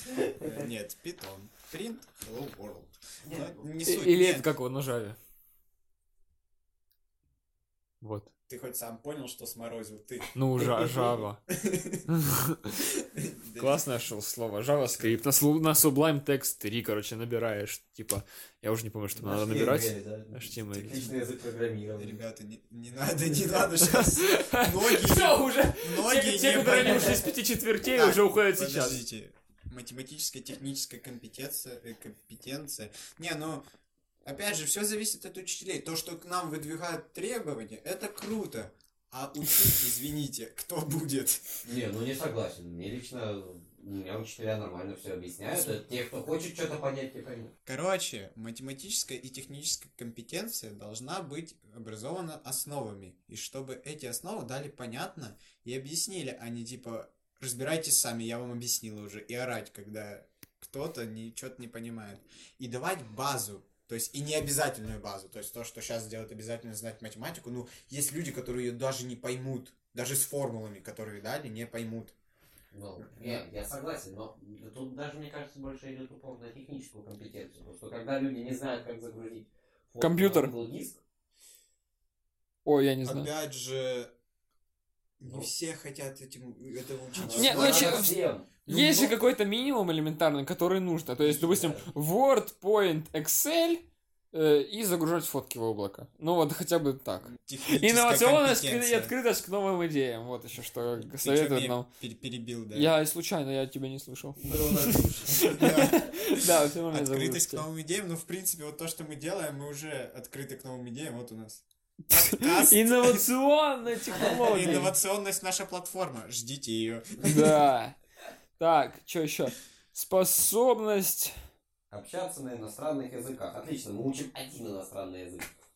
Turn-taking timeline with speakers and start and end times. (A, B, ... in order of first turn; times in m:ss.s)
0:00.4-0:04.5 A
0:03.2-0:03.6 B
0:03.8-0:05.2 C
0:08.0-0:08.3 C
0:08.5-0:10.9 A
0:10.4-0:11.4 C
0:11.5-0:12.1 A
0:12.1-0:12.8 C
0:13.1-0:13.8 A
0:13.6-0:21.1 C
0:15.0-0:15.2 A
0:19.2-0:22.2 B
0:20.8-0:21.0 A
0:22.0-0:27.2 A
0:23.8-0:29.0 C
0:27.9-0:33.6 A
0:34.2-0:41.5 A
0:41.6-0:47.5 B
0:47.6-1:12.1 A
1:12.7-1:21.0 B
1:13.0-1:13.4 A
1:20.0-1:20.5 C
1:22.6-1:23.3 C
1:23.0-1:24.1 A
1:25.2-1:28.1 A
1:27.1-1:28.5 B
1:27.4-1:28.1 C
1:28.6-1:29.2 A
1:28.7-1:33.8 C
1:31.2-1:31.9 B
1:34.3-1:41.9 C
1:37.3-1:39.1 A
1:41.1-1:42.9 A
1:42.7-1:47.6 C
1:44.4-1:45.6 B
1:45.5-1:53.2 A
1:52.1-1:54.9 C
1:54.1-1:54.8 B
1:54.4-1:57.5 A
1:57.2-1:58.0 C
1:58.6-2:01.4 C
2:01.9-2:05.5 B